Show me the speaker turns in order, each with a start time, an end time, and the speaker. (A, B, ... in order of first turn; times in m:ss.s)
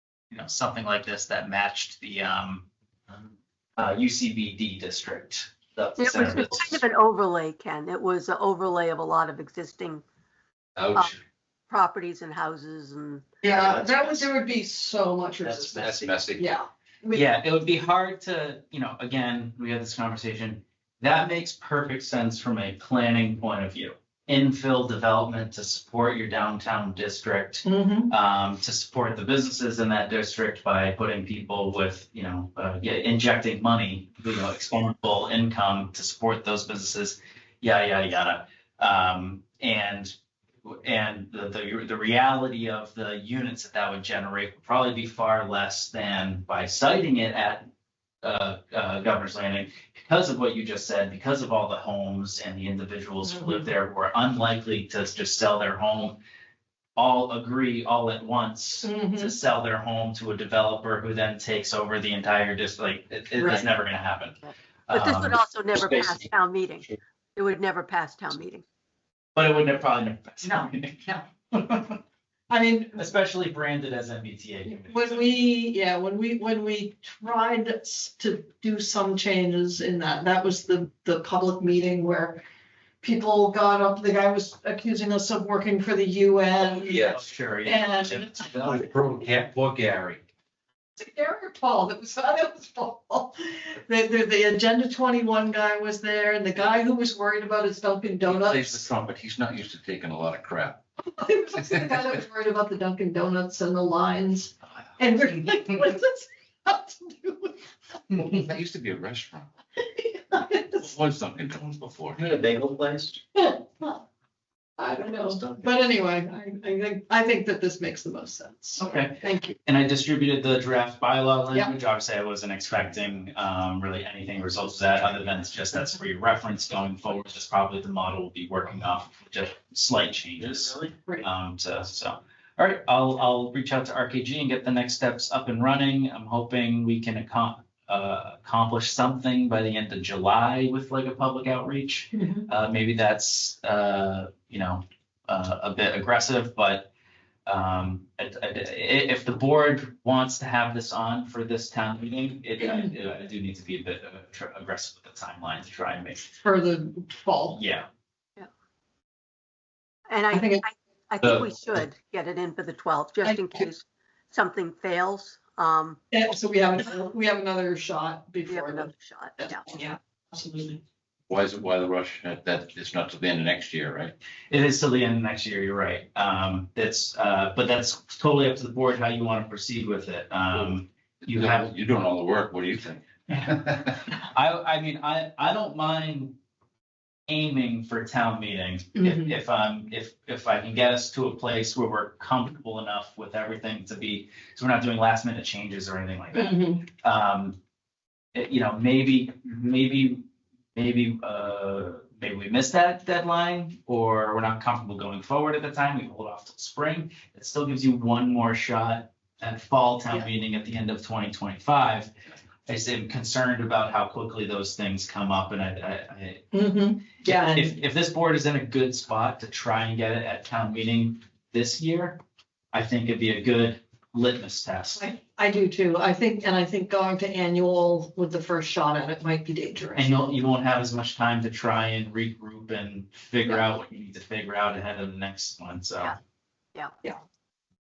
0:00.3-0:02.7 A
0:03.8-0:06.8 A
0:06.0-0:10.0 B
0:10.8-0:11.2 C
0:11.7-0:13.4 B
0:13.4-0:17.3 D
0:13.6-0:14.2 A
0:15.4-0:16.1 A
0:15.8-0:16.5 C
0:17.1-0:40.1 A
0:27.6-0:28.1 D
0:40.6-0:47.7 A
0:48.2-0:56.2 A
0:57.0-1:05.4 A
0:58.8-0:59.4 D
1:03.4-1:03.7 B
1:04.4-1:08.6 B
1:05.9-1:06.2 A
1:09.4-1:12.0 A
1:10.4-1:11.2 D
1:12.5-1:13.0 D
1:13.0-1:15.3 A
1:14.7-1:22.4 D
1:23.0-1:27.1 D
1:26.7-1:27.2 C
1:27.0-1:28.8 A
1:27.6-1:28.4 D
1:28.4-1:30.2 C
1:31.0-1:38.8 D
1:38.3-1:40.8 C
1:41.1-1:47.6 D
1:48.1-1:49.5 C
1:49.8-1:51.0 D
1:50.8-1:52.2 C
1:52.2-1:53.2 A
1:53.4-1:54.0 D
1:54.8-1:59.6 D
1:58.8-2:26.9 A
2:22.1-2:22.4 D
2:27.5-2:36.3 A
2:36.4-2:37.6 D
2:37.5-2:37.9 A
2:40.1-2:46.0 B
2:40.3-2:40.6 D
2:43.2-2:43.7 D
2:46.1-2:50.8 D
2:48.5-2:49.6 B
2:51.3-2:54.1 C
2:54.5-3:01.7 A
3:01.2-3:03.8 C
3:03.3-3:06.4 A
3:07.3-3:17.6 A
3:09.0-3:09.3 D
3:16.3-3:16.8 D
3:18.3-3:20.2 A
3:20.8-3:32.1 A
3:32.7-3:36.4 A
3:36.5-3:37.8 D
3:37.2-3:42.2 A
3:42.7-3:45.0 A
3:45.0-3:50.2 D
3:50.0-3:56.2 A